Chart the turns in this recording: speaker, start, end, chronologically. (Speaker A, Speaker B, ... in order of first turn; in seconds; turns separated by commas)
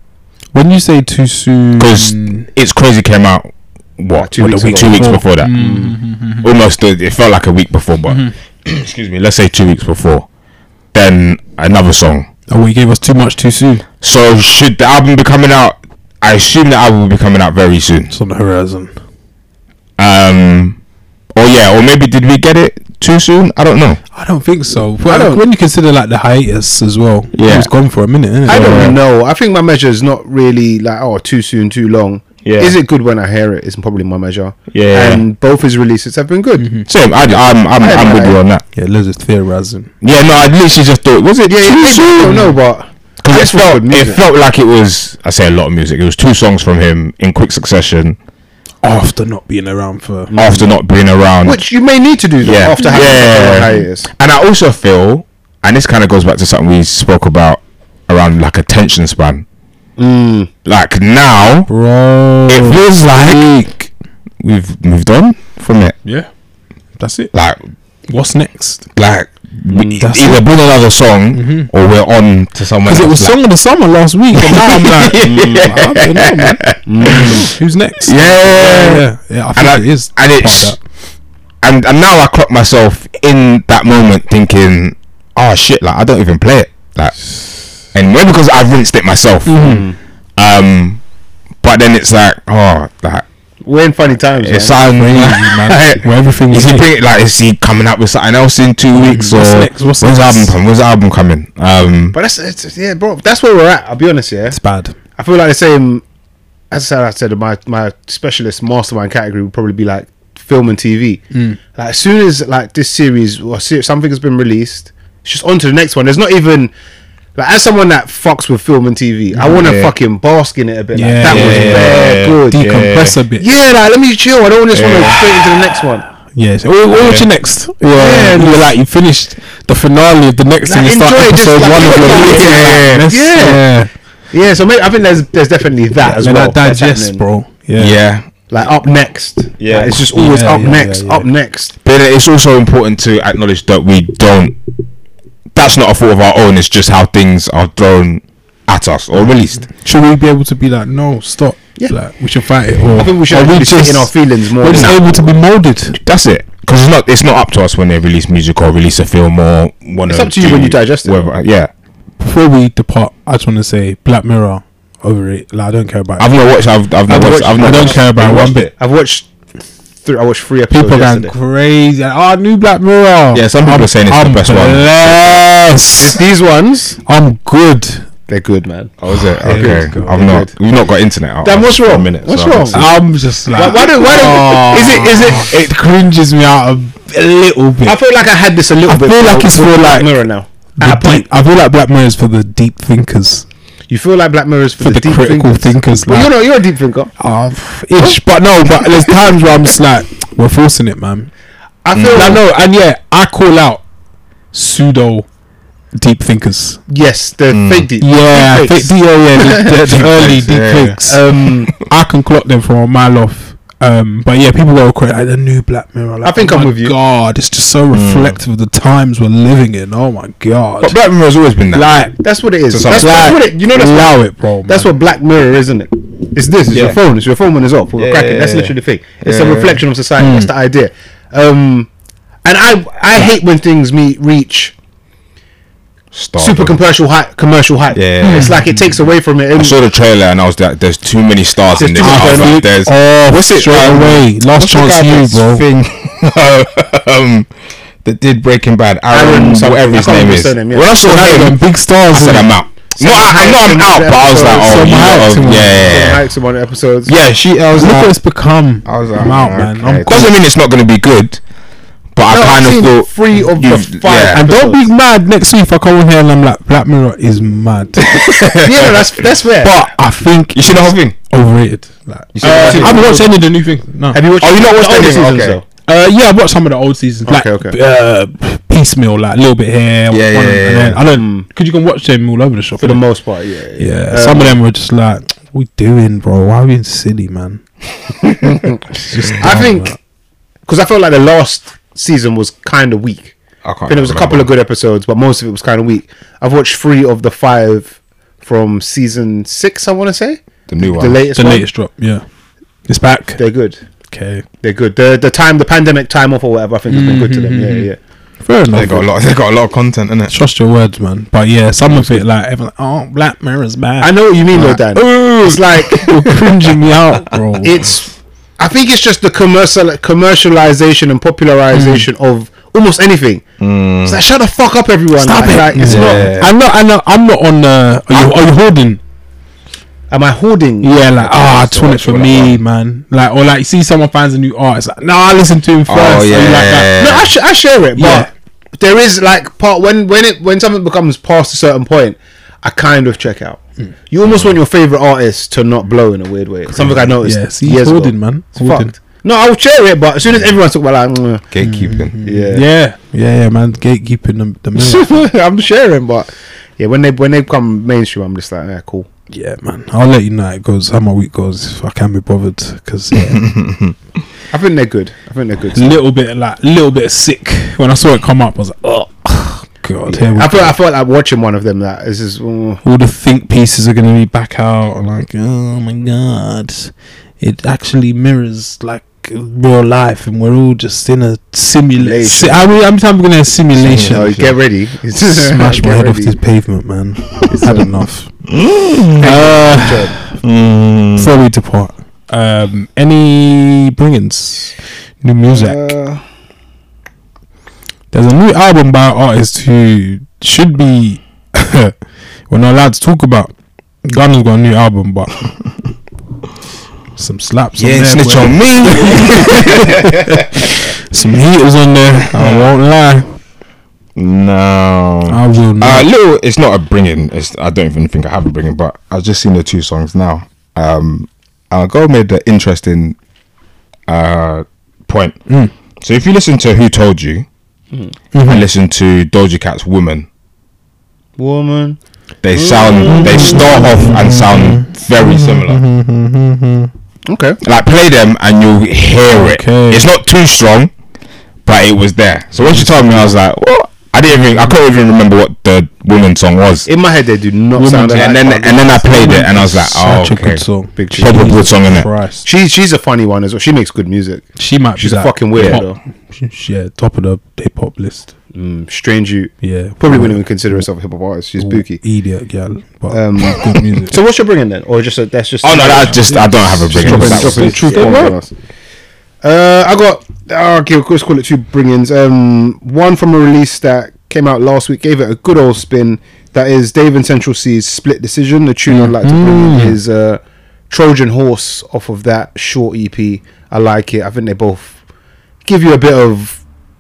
Speaker A: 0.5-2.5, Speaker B: 1.8-5.6, Speaker C: 4.2-6.0, Speaker A: 4.4-6.5, Speaker B: 6.4-10.3, Speaker A: 8.1-8.3, Speaker B: 10.9-12.3, Speaker A: 12.5-13.8, Speaker B: 14.0-18.1, Speaker A: 18.1-18.9, Speaker B: 20.0-20.8, Speaker B: 21.4-24.0, Speaker A: 24.1-29.0, Speaker C: 25.1-25.4, Speaker B: 27.3-27.7, Speaker C: 28.5-36.8, Speaker B: 32.4-32.8, Speaker B: 34.7-35.2, Speaker A: 36.6-36.9, Speaker B: 36.9-38.6, Speaker C: 37.8-38.4, Speaker A: 38.8-39.9, Speaker B: 40.0-42.5, Speaker C: 41.5-44.2, Speaker B: 43.2-48.2, Speaker A: 48.8-50.3, Speaker C: 50.3-50.6, Speaker B: 50.4-51.6, Speaker C: 51.4-54.1, Speaker B: 52.4-59.5, Speaker C: 60.0-60.5, Speaker B: 60.6-61.7, Speaker A: 61.7-63.9, Speaker B: 62.5-63.7, Speaker B: 64.4-66.0, Speaker A: 67.0-67.3, Speaker B: 67.3-67.6, Speaker A: 68.1-68.9, Speaker B: 69.0-73.4, Speaker C: 69.7-70.0, Speaker A: 70.0-70.5, Speaker A: 71.3-71.7, Speaker A: 72.9-80.8, Speaker B: 74.3-77.4, Speaker C: 76.9-77.5, Speaker B: 78.0-80.8, Speaker B: 81.6-87.2, Speaker B: 87.9-89.7, Speaker A: 89.5-89.9, Speaker C: 89.6-90.0, Speaker B: 90.4-91.0, Speaker B: 91.6-93.2, Speaker C: 93.6-94.8, Speaker B: 94.4-102.2, Speaker A: 95.0-96.9, Speaker A: 99.0-100.5, Speaker C: 102.1-104.6, Speaker A: 104.5-105.0, Speaker C: 105.2-106.0, Speaker C: 106.7-111.2, Speaker C: 111.8-116.7, Speaker C: 117.4-122.6, Speaker B: 119.4-119.9, Speaker A: 121.0-122.0, Speaker B: 121.2-123.2, Speaker A: 122.5-123.5, Speaker C: 123.4-126.1, Speaker B: 124.7-125.2, Speaker A: 126.3-133.9, Speaker B: 127.0-127.3, Speaker C: 127.9-128.7, Speaker C: 130.7-133.7, Speaker B: 131.7-133.1, Speaker C: 134.3-137.2, Speaker A: 136.0-138.0, Speaker B: 137.8-138.3, Speaker C: 138.5-141.8, Speaker B: 139.6-139.9, Speaker A: 139.9-141.3, Speaker B: 141.8-144.6, Speaker B: 145.6-149.7, Speaker A: 149.8-156.0, Speaker C: 152.9-155.3, Speaker B: 156.0-161.7, Speaker C: 160.1-161.3, Speaker A: 162.2-166.3, Speaker B: 166.2-168.7, Speaker C: 167.1-169.3, Speaker A: 167.6-168.7, Speaker C: 170.0-171.3, Speaker A: 170.7-176.2, Speaker B: 173.3-175.5, Speaker C: 176.0-177.0, Speaker A: 177.1-178.1, Speaker C: 178.3-180.5, Speaker B: 179.1-182.9, Speaker A: 179.4-180.4, Speaker C: 181.4-182.9, Speaker A: 182.7-188.0, Speaker C: 183.5-185.5, Speaker B: 183.9-185.4, Speaker C: 187.8-191.2, Speaker A: 188.8-190.2, Speaker A: 190.8-193.5, Speaker C: 193.9-197.1, Speaker A: 194.8-196.3, Speaker A: 197.2-201.3, Speaker C: 201.8-202.4, Speaker B: 201.9-202.4, Speaker A: 202.2-203.8, Speaker A: 204.5-205.3, Speaker A: 206.0-206.8, Speaker C: 206.9-209.7, Speaker B: 207.5-207.9, Speaker A: 208.0-211.2, Speaker B: 209.9-211.0, Speaker C: 211.1-211.7, Speaker A: 211.8-221.0, Speaker C: 216.2-216.9, Speaker B: 217.9-218.4, Speaker B: 220.8-221.9, Speaker A: 221.7-222.2, Speaker C: 222.2-231.9, Speaker B: 222.7-223.4, Speaker A: 222.9-224.9, Speaker B: 226.7-227.0, Speaker B: 228.0-229.8, Speaker A: 230.2-230.5, Speaker C: 232.4-234.7, Speaker B: 236.1-236.8, Speaker C: 236.4-239.8, Speaker B: 237.9-238.6, Speaker A: 238.3-238.8, Speaker B: 239.6-247.5, Speaker C: 241.7-242.6, Speaker A: 242.0-245.6, Speaker B: 248.0-256.2, Speaker C: 249.1-251.0, Speaker A: 251.0-252.5, Speaker C: 252.9-255.0, Speaker A: 254.6-255.9, Speaker C: 255.6-257.1, Speaker B: 257.1-258.1, Speaker A: 257.8-260.3, Speaker C: 258.9-260.3, Speaker B: 258.9-261.4, Speaker B: 262.1-264.4, Speaker C: 262.3-264.9, Speaker A: 264.3-268.3, Speaker B: 268.1-268.9, Speaker C: 268.6-269.8, Speaker A: 269.6-274.2, Speaker B: 270.5-271.1, Speaker B: 272.3-273.2, Speaker C: 272.4-273.3, Speaker C: 274.1-275.6, Speaker B: 274.4-275.6, Speaker A: 275.9-283.0, Speaker C: 277.3-277.8, Speaker B: 280.1-281.0, Speaker C: 281.1-281.5, Speaker C: 282.8-284.6, Speaker A: 283.8-287.6, Speaker C: 288.2-289.9, Speaker A: 289.1-290.0, Speaker C: 290.7-293.4, Speaker B: 293.6-294.5, Speaker C: 293.9-301.7, Speaker B: 300.7-301.2, Speaker A: 301.4-302.2, Speaker A: 302.9-303.4, Speaker C: 303.4-303.8, Speaker A: 304.1-304.4, Speaker C: 304.6-308.0, Speaker A: 306.9-307.9, Speaker A: 308.4-309.1, Speaker B: 308.7-310.4, Speaker A: 310.3-317.8, Speaker C: 314.0-316.1, Speaker C: 317.6-326.5, Speaker A: 321.7-322.1, Speaker B: 323.6-324.2, Speaker A: 325.2-329.0, Speaker B: 325.8-326.5, Speaker C: 330.1-331.1, Speaker A: 330.8-336.9, Speaker B: 331.2-332.6, Speaker B: 335.9-337.3, Speaker C: 337.0-351.5, Speaker A: 338.0-338.3, Speaker A: 347.0-348.9, Speaker B: 351.5-352.2, Speaker A: 351.6-355.2, Speaker C: 352.2-352.6, Speaker C: 354.8-359.1, Speaker A: 359.3-363.6, Speaker B: 363.4-363.9, Speaker C: 364.5-366.0, Speaker A: 365.8-370.8, Speaker C: 370.1-372.8, Speaker A: 372.8-384.4, Speaker C: 382.0-382.7, Speaker B: 383.8-384.5, Speaker C: 384.0-386.4, Speaker A: 385.1-388.3, Speaker C: 387.4-388.0, Speaker B: 388.5-389.3, Speaker C: 389.2-390.2, Speaker A: 389.2-390.4, Speaker B: 390.4-391.3, Speaker A: 391.2-395.9, Speaker C: 395.5-396.2, Speaker A: 398.1-401.9, Speaker A: 402.5-403.5, Speaker A: 404.1-405.5, Speaker A: 407.2-413.3, Speaker B: 407.8-410.4, Speaker B: 412.3-412.7, Speaker B: 414.2-423.2, Speaker A: 415.3-416.1, Speaker B: 424.1-425.4, Speaker A: 425.5-425.7, Speaker B: 426.0-427.5, Speaker A: 428.3-428.6, Speaker B: 428.4-430.3, Speaker C: 431.4-432.0, Speaker B: 432.4-435.8, Speaker C: 432.5-433.9, Speaker A: 433.1-436.9, Speaker C: 437.3-437.6, Speaker B: 437.6-440.9, Speaker A: 439.3-440.1, Speaker B: 441.6-446.9, Speaker A: 442.5-443.4, Speaker A: 444.4-444.7, Speaker C: 446.9-449.1, Speaker A: 447.8-448.3, Speaker B: 448.1-450.6, Speaker A: 448.9-452.5, Speaker C: 451.0-451.5, Speaker B: 451.2-452.1, Speaker C: 452.4-456.0, Speaker A: 454.6-458.3, Speaker C: 458.5-462.0, Speaker A: 459.6-460.8, Speaker A: 461.6-464.2, Speaker C: 463.1-468.5, Speaker B: 465.6-468.2, Speaker A: 467.0-468.4, Speaker C: 469.4-485.0, Speaker A: 478.9-480.0, Speaker C: 485.6-486.6